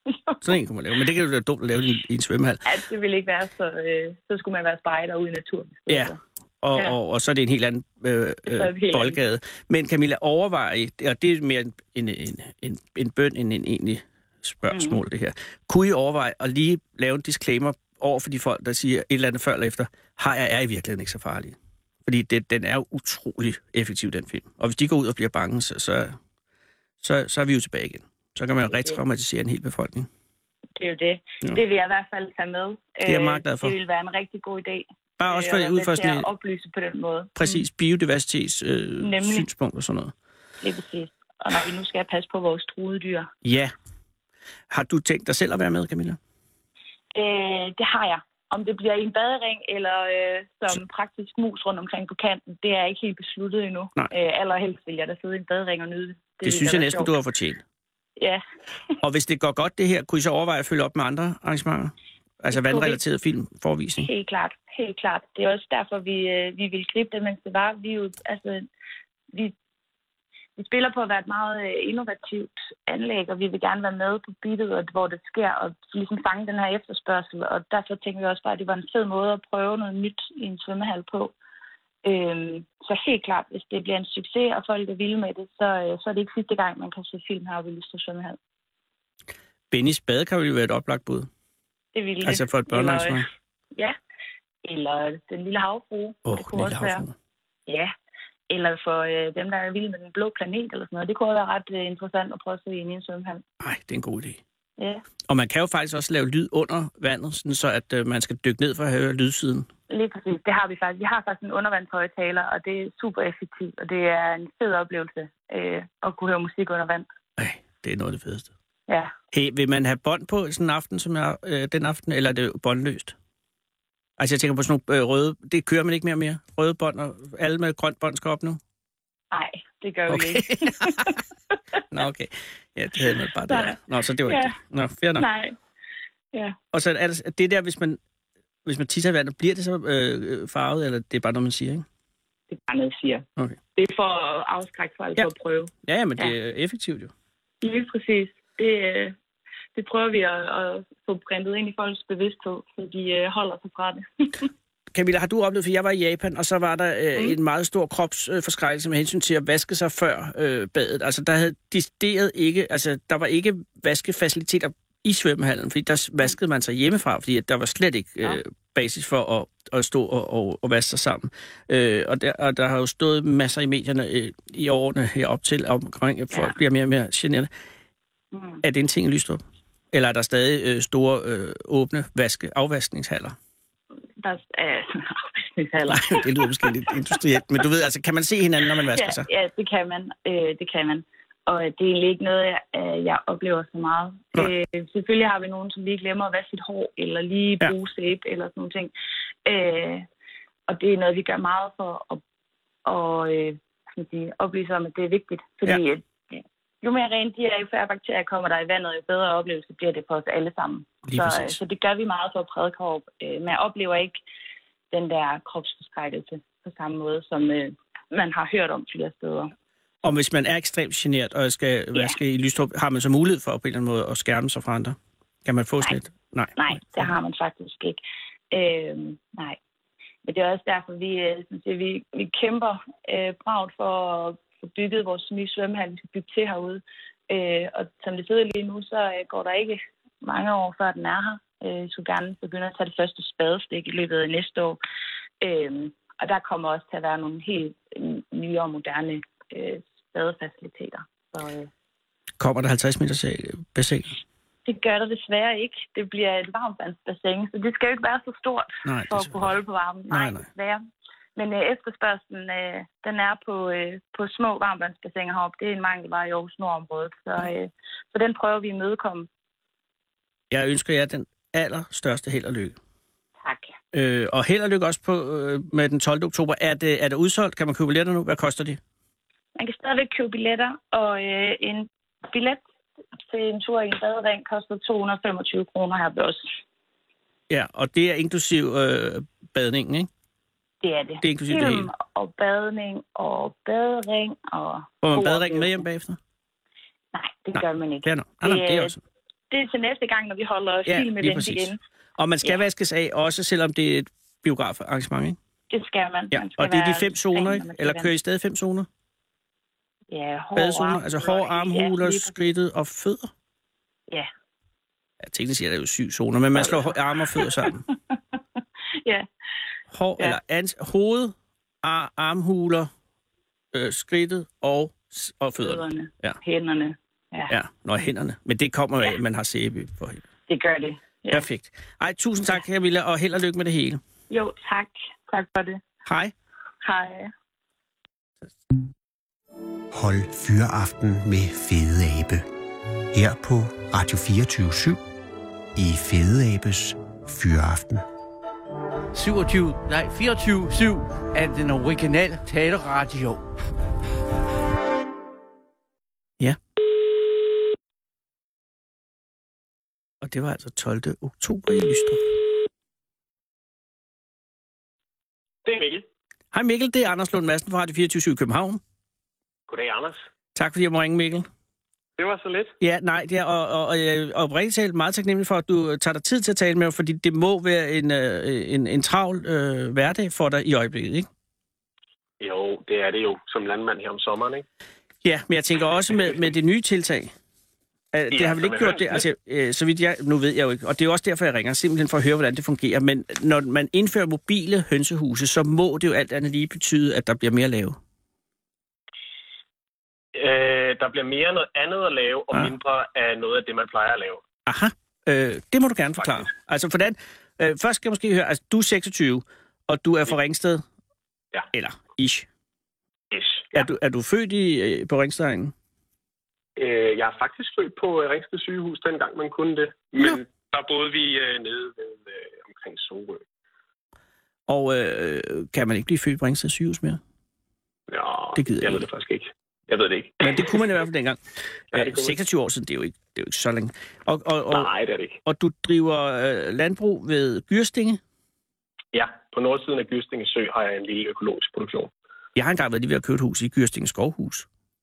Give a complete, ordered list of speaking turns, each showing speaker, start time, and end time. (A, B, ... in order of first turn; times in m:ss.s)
0:00.4-0:02.6 A
0:02.6-0:06.2 B
0:05.9-0:26.2 A
0:08.5-0:09.2 B
0:14.7-0:15.0 B
0:27.0-0:30.1 A
0:28.7-0:29.0 B
0:30.8-0:37.6 B
0:33.0-0:33.7 A
0:35.2-0:36.2 A
0:37.4-0:40.1 A
0:39.0-0:39.5 B
0:40.6-0:43.3 B
0:43.4-0:43.7 A
0:44.7-0:46.2 A
0:47.1-0:57.1 B
0:56.4-0:57.6 A
0:58.2-0:58.4 B
0:59.0-1:04.1 A
1:02.5-1:03.0 B
1:04.0-1:08.6 B
1:10.6-1:21.3 B
1:22.0-1:28.4 B
1:29.7-1:31.3 A
1:31.9-1:33.2 B
1:32.2-1:33.3 A
1:34.6-1:37.0 B
1:36.2-1:37.1 A
1:37.7-1:37.9 B
1:38.5-1:43.4 B
1:43.6-1:44.4 A
1:44.8-1:45.0 B
1:45.3-1:49.7 A
1:49.9-1:57.0 B
1:57.4-1:58.5 A
1:58.9-1:59.1 B
1:59.3-2:03.1 A
2:04.2-2:08.6 A
2:09.3-2:11.2 B
2:10.1-2:11.1 A
2:11.9-2:15.2 A
2:13.5-2:14.5 B
2:15.2-2:15.6 B
2:16.7-2:18.0 A
2:18.6-2:21.8 A
2:22.5-2:26.3 B
2:25.8-2:27.1 A
2:27.6-2:29.1 B
2:29.7-2:34.5 B
2:34.9-2:57.5 A
2:58.3-2:58.6 B
2:58.6-2:59.4 A
2:59.9-3:03.4 A
3:04.2-3:07.1 B
3:05.9-3:09.3 A
3:08.9-3:18.9 B
3:19.4-3:20.0 B
3:20.7-3:22.2 B
3:22.8-3:34.2 B
3:31.1-3:31.6 A
3:34.9-3:39.5 B
3:40.0-3:47.1 A
3:46.6-3:48.0 B
3:48.5-3:49.6 B
3:50.2-4:04.8 B
4:05.4-4:11.7 B
4:12.4-4:14.2 A
4:14.6-4:20.8 B
4:18.8-4:19.5 A
4:20.1-4:20.5 A
4:21.4-4:29.3 B
4:30.5-4:32.8 A
4:33.4-4:33.7 B
4:33.9-4:38.8 A
4:39.6-4:42.6 B
4:43.3-4:46.5 B
4:47.5-4:50.1 A
4:50.8-4:55.8 B
4:51.2-4:51.9 A
4:55.0-4:56.2 A
4:57.1-4:58.9 B
4:57.5-4:59.0 A
4:59.5-5:01.8 B
5:00.9-5:05.4 A
5:05.7-5:08.1 B
5:06.3-5:08.9 A
5:10.1-5:12.5 B
5:10.6-5:13.3 A
5:15.2-5:17.8 A
5:16.6-5:18.3 B
5:19.0-5:19.3 B
5:19.9-5:22.9 A
5:23.7-5:26.4 A
5:25.6-5:27.5 B
5:27.5-5:30.2 A
5:30.5-5:31.4 B
5:31.3-5:34.0 A
5:34.3-5:35.8 B
5:36.0-5:36.3 A
5:36.8-5:37.3 B
5:39.9-5:42.4 C
5:43.1-5:45.0 C
5:45.7-5:48.0 C
5:49.1-5:53.4 D
6:00.2-6:02.3 A
6:05.6-6:06.0 E
6:06.5-6:08.8 A
6:09.7-6:10.2 E
6:10.6-6:11.5 A
6:12.2-6:12.7 E
6:12.8-6:21.3 A
6:22.4-6:24.6 E
6:25.2-6:27.3 A
6:28.1-6:38.0 A
6:28.3-6:29.2 E
6:40.3-6:44.4 E
6:44.7-6:50.8 A
6:51.7-6:52.5 A
6:53.3-6:53.7 E
6:53.7-6:55.7 A
6:56.8-7:03.4 E
7:04.7-7:07.2 A
7:08.1-7:10.8 E
7:08.6-7:09.0 A
7:10.4-7:11.4 A
7:11.9-7:14.9 A
7:11.9-7:12.3 E
7:14.7-7:15.4 E
7:15.4-7:18.2 A
7:19.1-7:22.1 E
7:22.6-7:24.6 A